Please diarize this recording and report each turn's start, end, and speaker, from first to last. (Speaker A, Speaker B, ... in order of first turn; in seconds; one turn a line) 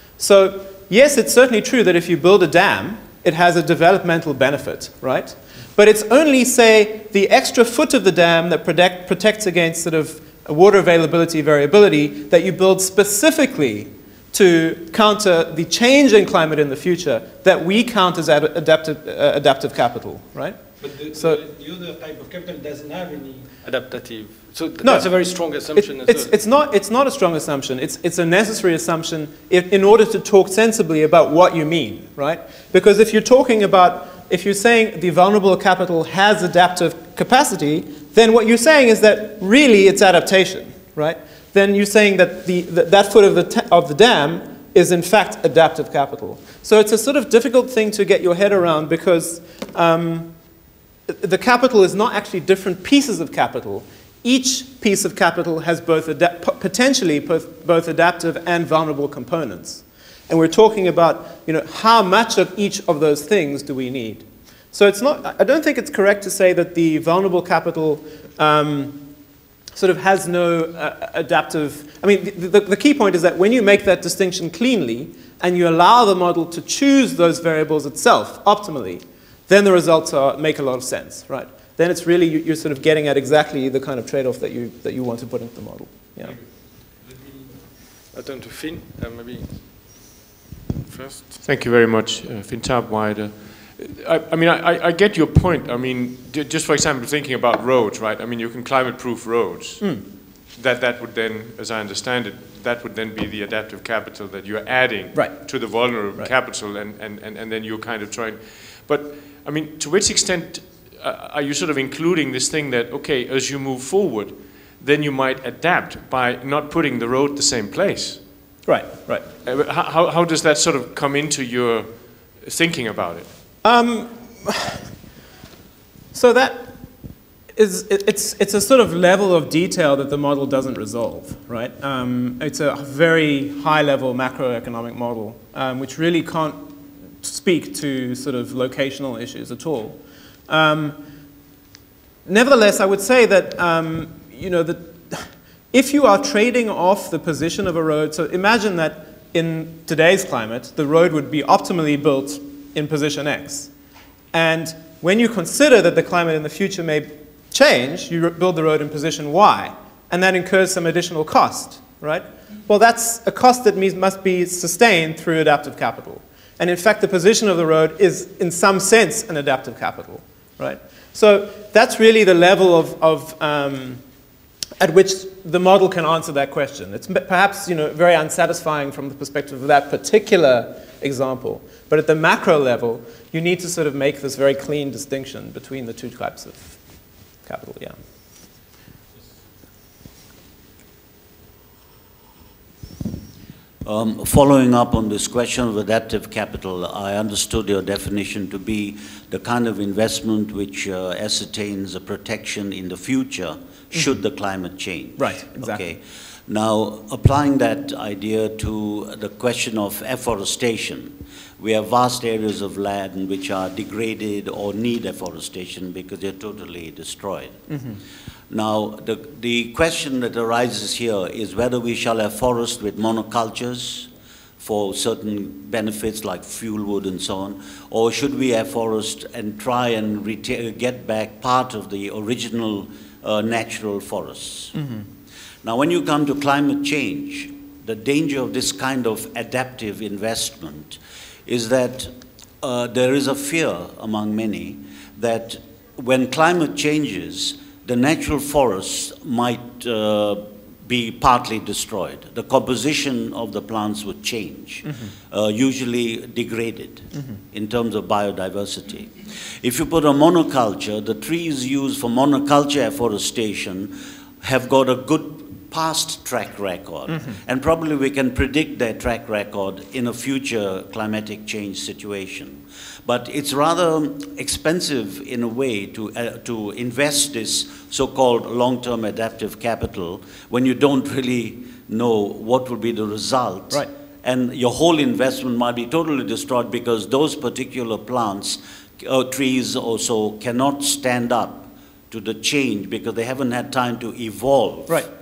Speaker A: 0.2-21.4
Speaker B: 20.8-26.3
Speaker A: 24.8-50.3
Speaker A: 51.1-69.0
Speaker A: 69.7-86.4
Speaker B: 88.1-90.2
Speaker B: 90.9-91.4
Speaker C: 91.4-118.2
Speaker A: 99.8-100.0
Speaker A: 105.1-106.3
Speaker A: 118.7-119.2
Speaker C: 119.4-123.3
Speaker A: 123.6-124.8
Speaker A: 126.1-126.8
Speaker A: 127.5-141.0
Speaker A: 142.2-153.7
Speaker A: 154.3-174.0
Speaker A: 174.8-186.9
Speaker A: 187.4-188.0
Speaker D: 193.8-217.6
Speaker A: 203.9-204.2
Speaker A: 205.2-205.8
Speaker A: 217.7-218.0
Speaker D: 218.5-224.1
Speaker D: 224.6-234.7
Speaker A: 234.7-235.1
Speaker D: 235.6-295.1